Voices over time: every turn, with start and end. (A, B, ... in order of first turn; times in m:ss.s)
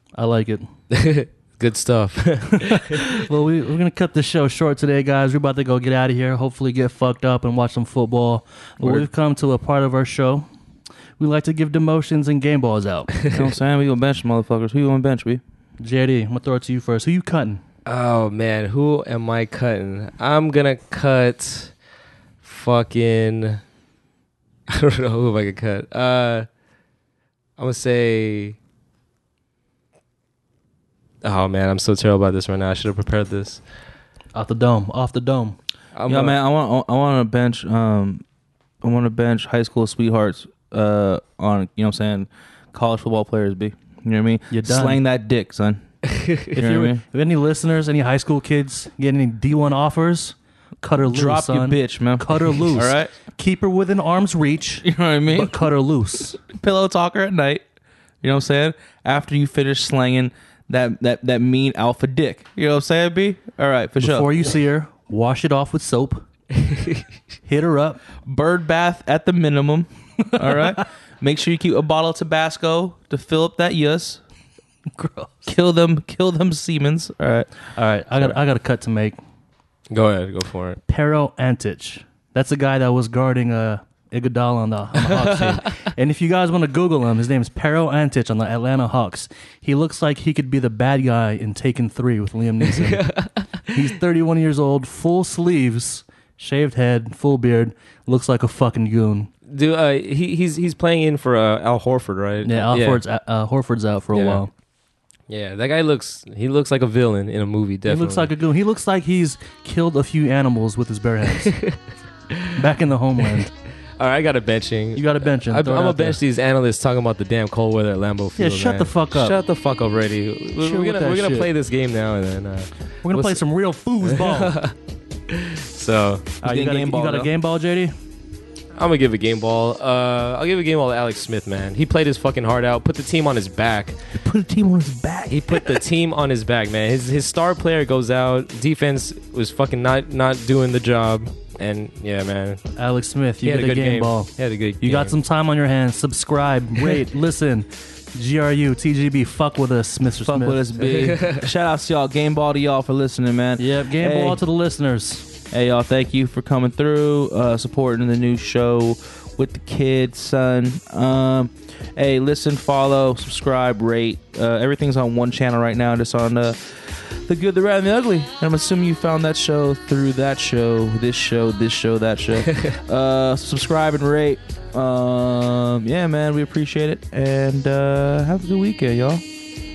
0:00.2-0:00.7 A
0:00.9-0:03.2 B
0:02.6-0:10.5 A
0:11.2-0:13.1 A
0:13.2-0:13.4 B
0:13.3-0:15.4 C
0:15.8-0:17.6 A
0:17.9-0:21.7 B
0:22.4-0:23.6 B
0:24.7-0:26.5 B
0:27.6-0:28.6 B
0:31.2-0:33.6 B
0:34.4-0:35.6 A
0:35.9-0:36.4 B
0:36.1-0:38.2 C
0:38.8-0:45.8 C
0:44.5-0:45.0 A
0:46.1-0:46.5 B
0:46.5-0:47.0 C
0:46.6-0:56.4 A
0:51.0-0:53.1 C
0:54.8-0:55.6 C
0:56.4-0:57.6 C
0:58.2-1:04.3 C
1:04.0-1:06.2 A
1:07.5-1:08.0 A
1:08.2-1:14.2 C
1:10.4-1:10.8 A
1:14.9-1:15.5 A
1:15.4-1:17.5 C
1:17.7-1:19.2 A
1:19.9-1:20.8 B
1:20.9-1:33.1 A
1:25.0-1:25.7 B
1:32.7-1:33.7 B
1:33.7-1:39.3 A
1:39.5-1:43.0 B
1:42.4-1:44.5 A
1:44.1-1:44.4 B
1:45.3-1:48.3 B
1:47.8-1:51.6 A
1:51.4-1:51.8 B
1:52.5-1:53.5 A
1:54.0-2:03.4 B
1:54.9-1:56.2 A
1:58.4-1:59.4 A
2:00.6-2:01.5 A
2:03.0-2:04.6 A
2:04.0-2:04.7 B
2:05.3-2:06.3 B
2:06.4-2:07.9 A
2:06.4-2:07.3 C
2:08.8-2:14.0 B
2:14.2-2:15.7 A
2:15.3-2:22.6 B
2:22.8-2:30.7 A
2:23.4-2:25.2 B
2:30.2-2:34.4 C
2:30.8-2:31.4 B
2:33.6-2:35.3 A
2:35.5-2:59.2 C